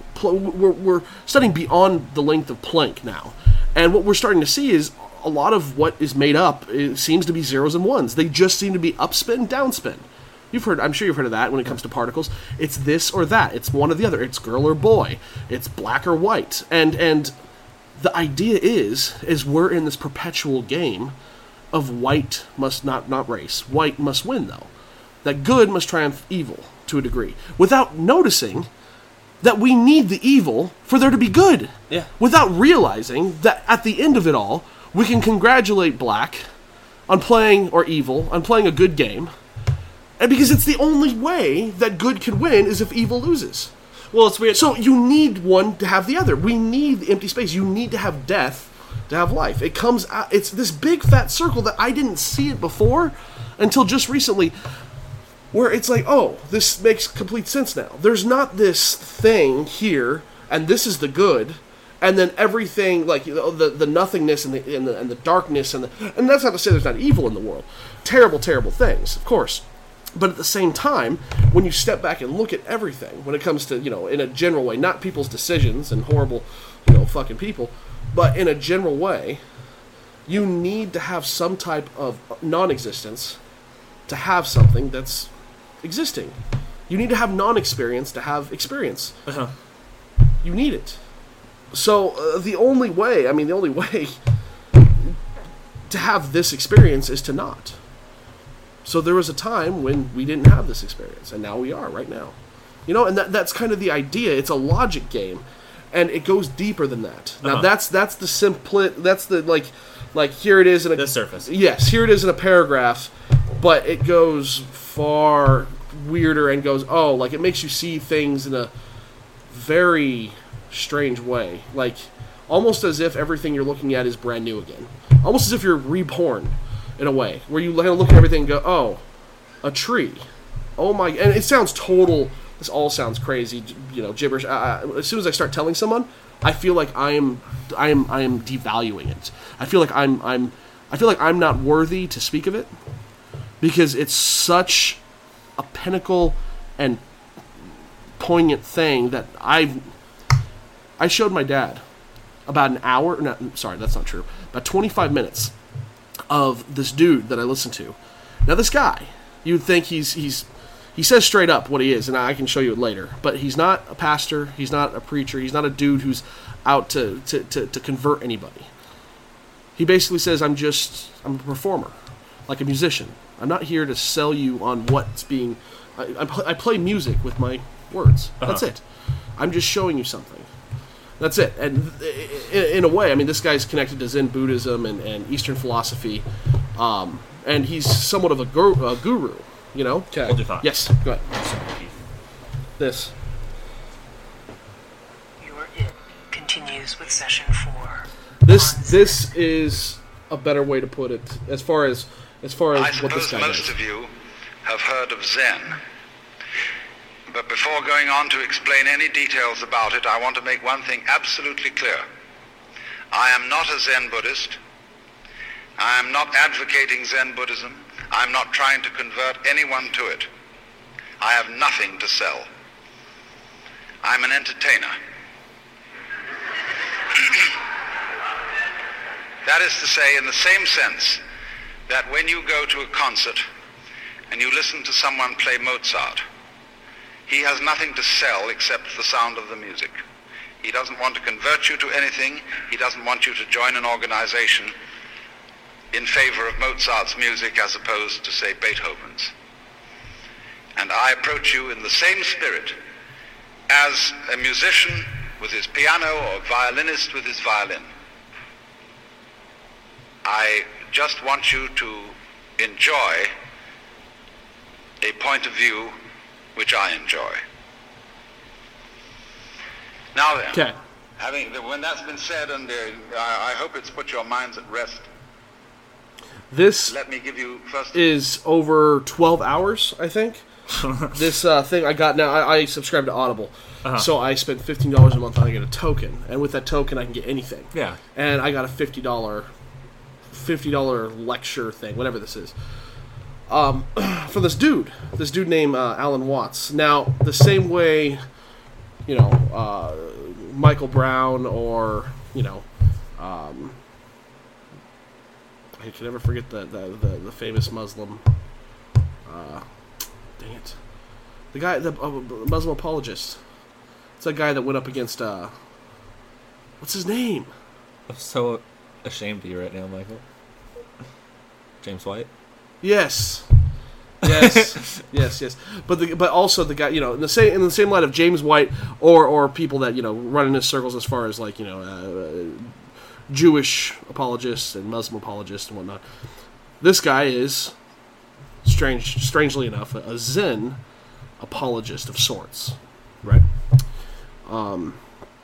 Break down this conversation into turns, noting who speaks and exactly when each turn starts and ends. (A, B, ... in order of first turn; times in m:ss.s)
0:00.1-0:17.3 A
0:18.0-0:21.1 A
0:21.7-0:24.7 A
0:25.2-0:28.7 A
0:29.4-0:36.4 A
0:37.1-0:39.3 A
0:40.2-0:43.7 A
0:44.1-0:44.8 B
0:44.5-0:54.6 A
0:55.5-1:09.6 A
1:10.2-1:19.4 A
1:20.3-1:23.4 A
1:24.1-1:25.3 A
1:25.8-1:26.4 A
1:26.9-1:29.2 A
1:29.3-1:29.5 B
1:30.4-1:31.0 A
1:31.7-1:34.2 A
1:34.8-1:35.2 A
1:35.9-1:37.8 A
1:38.8-1:42.4 A
1:42.9-1:58.7 A
1:47.4-1:47.7 B
1:51.0-1:51.5 B
1:59.5-2:09.0 A
2:09.6-2:10.2 A
2:10.8-2:22.7 A
2:23.6-2:25.0 A
2:25.6-2:27.0 A
2:28.2-2:29.8 A
2:31.0-2:31.8 A
2:32.5-2:35.5 A
2:36.3-2:48.7 A
2:49.8-2:51.9 A
2:52.5-2:58.8 A
2:59.4-3:00.5 A
3:01.2-3:06.2 A
3:06.8-3:11.2 A
3:10.2-3:12.0 B
3:12.8-3:13.1 A
3:15.4-3:19.3 C
3:18.4-3:23.7 A
3:22.8-3:24.1 D
3:24.6-3:25.8 D
3:27.3-3:32.1 D
3:33.1-3:34.6 D
3:35.8-3:40.3 D
3:41.2-3:42.5 D
3:44.0-3:45.0 D
3:47.2-3:47.6 D
3:49.4-3:51.2 D
3:51.9-3:53.4 D
3:54.3-3:56.2 D
3:57.3-3:59.9 D
4:00.6-4:04.7 D
4:05.9-4:09.3 D
4:10.8-4:12.8 D
4:13.7-4:17.9 D
4:20.2-4:23.3 D
4:25.0-4:26.0 D
4:26.6-4:27.4 D
4:30.2-4:30.6 D
4:31.2-4:35.1 D
4:36.5-4:37.0 A
4:36.9-4:38.0 D
4:37.9-4:40.4 A
4:41.0-4:49.5 A
4:47.7-4:48.0 B
4:50.3-4:52.6 A
4:53.5-4:58.2 A
4:59.1-5:02.7 A
5:03.2-5:03.8 A
5:05.8-5:08.2 A
5:09.3-5:09.6 A
5:10.4-5:10.8 A
5:11.5-5:13.4 A
5:14.2-5:15.5 A
5:16.8-5:17.5 A
5:18.1-5:20.2 B
5:21.8-5:22.3 B
5:22.8-5:23.5 A
5:24.2-5:32.8 A
5:24.2-5:24.8 B
5:33.3-5:36.0 A
5:36.8-5:37.7 A
5:38.6-5:40.8 A
5:41.4-5:43.4 A
5:44.4-5:45.0 A